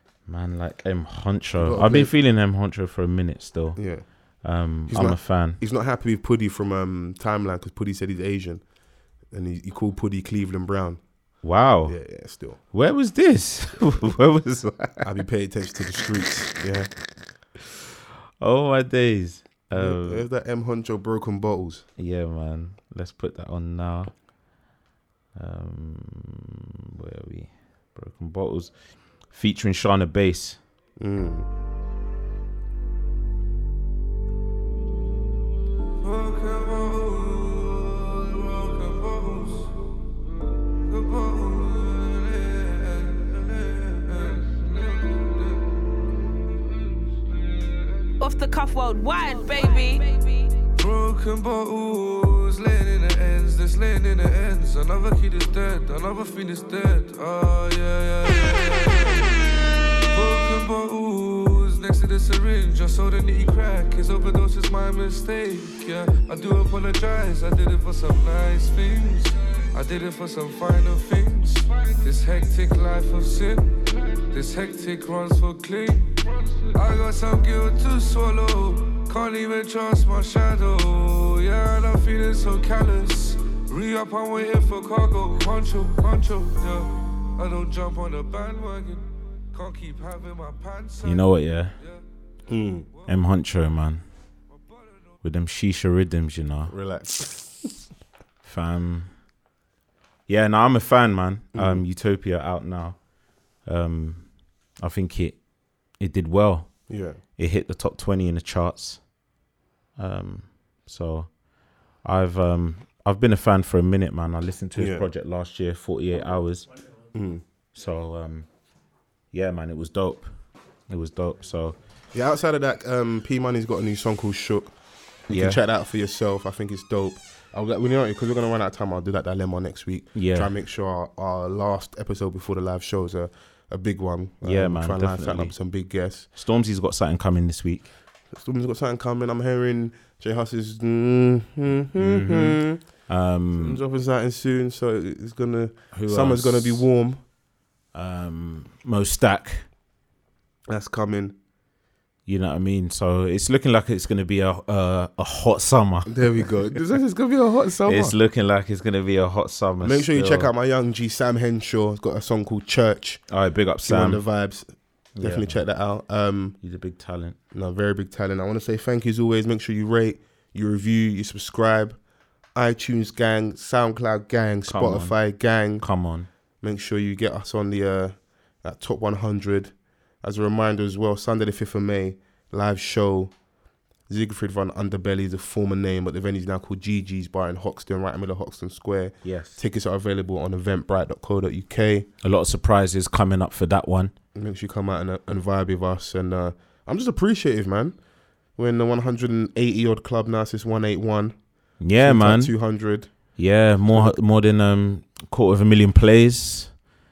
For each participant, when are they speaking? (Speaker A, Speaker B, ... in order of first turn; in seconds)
Speaker A: 0.3-3.8, 4.4-5.6, 11.4-12.0, 12.7-15.1, 18.4-20.2, 22.0-24.1, 25.4-28.7, 29.2-30.6, 91.0-91.7, 93.1-94.0, 95.2-96.7, 98.4-99.1, 100.3-103.0, 103.7-104.3, 104.8-105.4, 106.0-109.0, 110.0-111.4, 112.0-116.7, 117.7-118.5, 119.3-120.3, 120.9-121.8, 125.3-125.6, 130.2-130.5, 134.4-135.6, 136.3-137.9, 142.0-143.8, 145.9-146.9, 147.9-149.7, 152.3-156.5, 157.9-160.5, 163.3-164.2, 165.2-165.6, 166.6-167.4, 174.7-175.2, 175.8-176.3, 189.2-189.6, 192.2-194.1, 201.8-202.5, 203.3-206.7
Speaker B: 1.6-2.1, 3.8-4.0, 4.9-8.6, 9.3-11.0, 11.9-12.6, 15.0-16.9, 19.7-21.9, 31.0-31.5, 92.5-92.9, 96.7-97.7, 101.5-101.8, 106.9-107.2, 114.8-115.1, 117.1-117.4, 122.1-124.8, 125.3-136.3, 138.3-142.8, 143.6-147.2, 150.7-151.4, 156.1-158.2, 159.8-163.2, 163.8-164.7, 165.2-166.6, 167.5-172.0, 172.6-175.8, 176.6-183.3, 184.1-192.1, 194.3-198.0, 198.6-201.4, 202.0-203.1
Speaker C: 36.0-40.1, 40.7-45.9, 46.5-47.0, 49.5-49.9, 50.8-59.5, 60.1-92.0, 94.5-94.9
Speaker D: 48.2-50.5